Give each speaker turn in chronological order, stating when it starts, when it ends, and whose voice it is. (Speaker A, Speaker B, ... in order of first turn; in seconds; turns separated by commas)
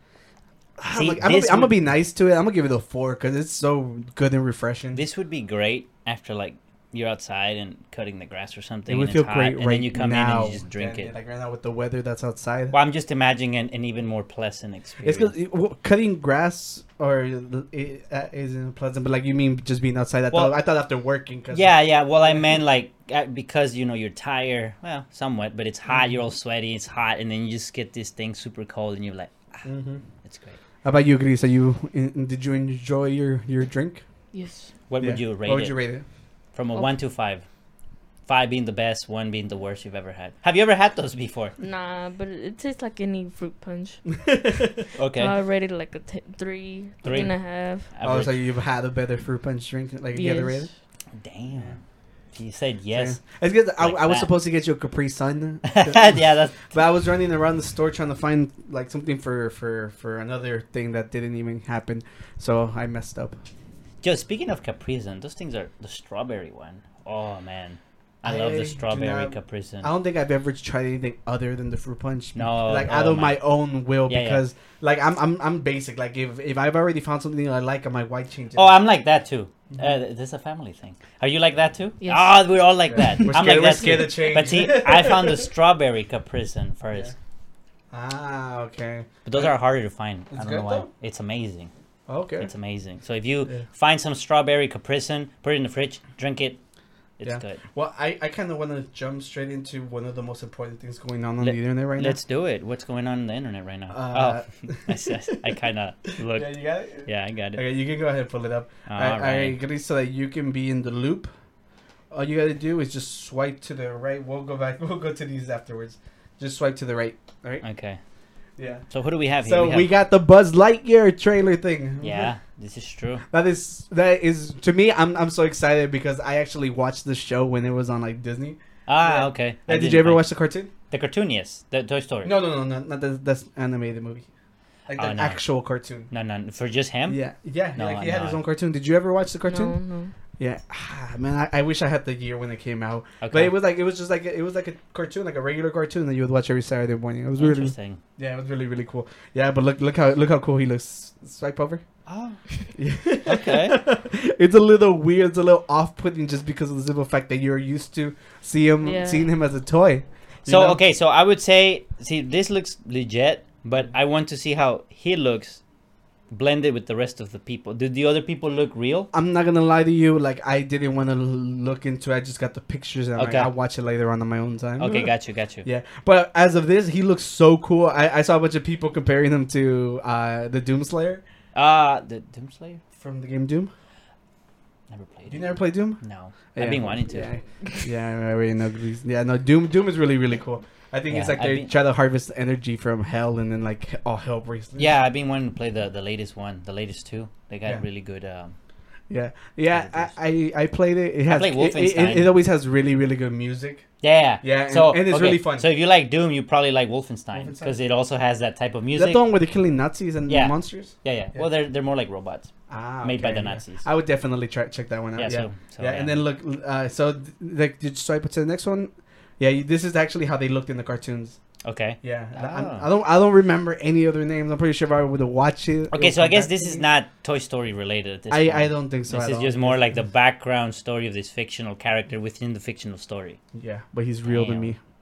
Speaker A: 0.8-5.0, Speaker B: 0.9-1.9, Speaker B: 4.9-11.1, Speaker A: 8.9-12.8, Speaker B: 12.7-15.3, Speaker A: 15.0-22.6, Speaker B: 20.3-20.6, Speaker B: 21.5-29.6, Speaker A: 25.9-26.2, Speaker A: 29.6-30.0, Speaker B: 30.2-30.6, Speaker A: 30.8-34.0, Speaker C: 34.3-34.7, Speaker B: 34.9-35.8, Speaker A: 35.0-36.0, Speaker B: 36.5-37.5, Speaker B: 38.3-41.5, Speaker C: 41.6-44.1, Speaker A: 44.2-44.8, Speaker B: 45.0-45.3, Speaker C: 45.2-47.9, Speaker B: 47.0-48.4, Speaker A: 48.0-50.7, Speaker C: 50.1-50.7, Speaker B: 51.1-51.8, Speaker B: 52.3-53.2, Speaker A: 52.9-63.4, Speaker B: 53.8-54.3, Speaker B: 55.6-56.8, Speaker B: 64.0-69.9, Speaker A: 68.2-78.8, Speaker B: 72.3-73.5, Speaker B: 74.1-74.4, Speaker B: 78.5-87.1, Speaker C: 82.0-82.4, Speaker A: 82.9-85.5, Speaker A: 87.9-89.5, Speaker B: 89.2-91.7, Speaker A: 90.3-90.9, Speaker A: 92.1-92.5, Speaker B: 92.4-96.6, Speaker B: 97.2-97.6, Speaker A: 97.2-102.2, Speaker B: 101.4-107.6, Speaker A: 103.9-105.3, Speaker A: 106.1-111.3, Speaker B: 108.9-109.6, Speaker A: 112.1-117.7, Speaker B: 117.6-118.0, Speaker A: 118.6-118.8, Speaker B: 118.9-119.9, Speaker A: 119.4-122.4, Speaker B: 122.0-123.2, Speaker A: 123.3-130.7, Speaker B: 128.9-130.3, Speaker B: 130.9-132.4, Speaker A: 132.2-134.3, Speaker A: 134.9-136.1, Speaker B: 135.0-135.4, Speaker B: 136.1-137.2, Speaker A: 137.1-139.8, Speaker B: 137.8-138.4, Speaker C: 139.5-140.1, Speaker A: 140.4-151.8, Speaker B: 143.2-143.6, Speaker B: 147.4-148.0, Speaker B: 152.1-152.4, Speaker A: 152.8-160.8, Speaker B: 153.2-153.8, Speaker C: 158.8-159.3, Speaker B: 160.5-165.6, Speaker B: 166.3-169.1, Speaker A: 169.1-181.2, Speaker B: 173.2-173.5, Speaker B: 174.8-175.7, Speaker B: 181.6-182.8, Speaker A: 183.0-183.7, Speaker B: 184.9-187.3, Speaker A: 185.3-186.0, Speaker A: 186.5-194.9, Speaker B: 191.1-191.7, Speaker B: 194.8-198.6, Speaker A: 199.1-203.9, Speaker B: 199.7-200.2, Speaker B: 201.3-202.3, Speaker B: 204.0-209.2, Speaker A: 204.4-205.7, Speaker A: 207.3-207.8, Speaker A: 208.9-211.5, Speaker B: 210.3-213.8, Speaker A: 212.7-221.4, Speaker B: 215.2-216.2, Speaker B: 221.6-222.9, Speaker A: 222.0-226.8, Speaker B: 225.9-233.4, Speaker A: 228.3-230.0, Speaker A: 233.5-234.8, Speaker B: 234.2-234.7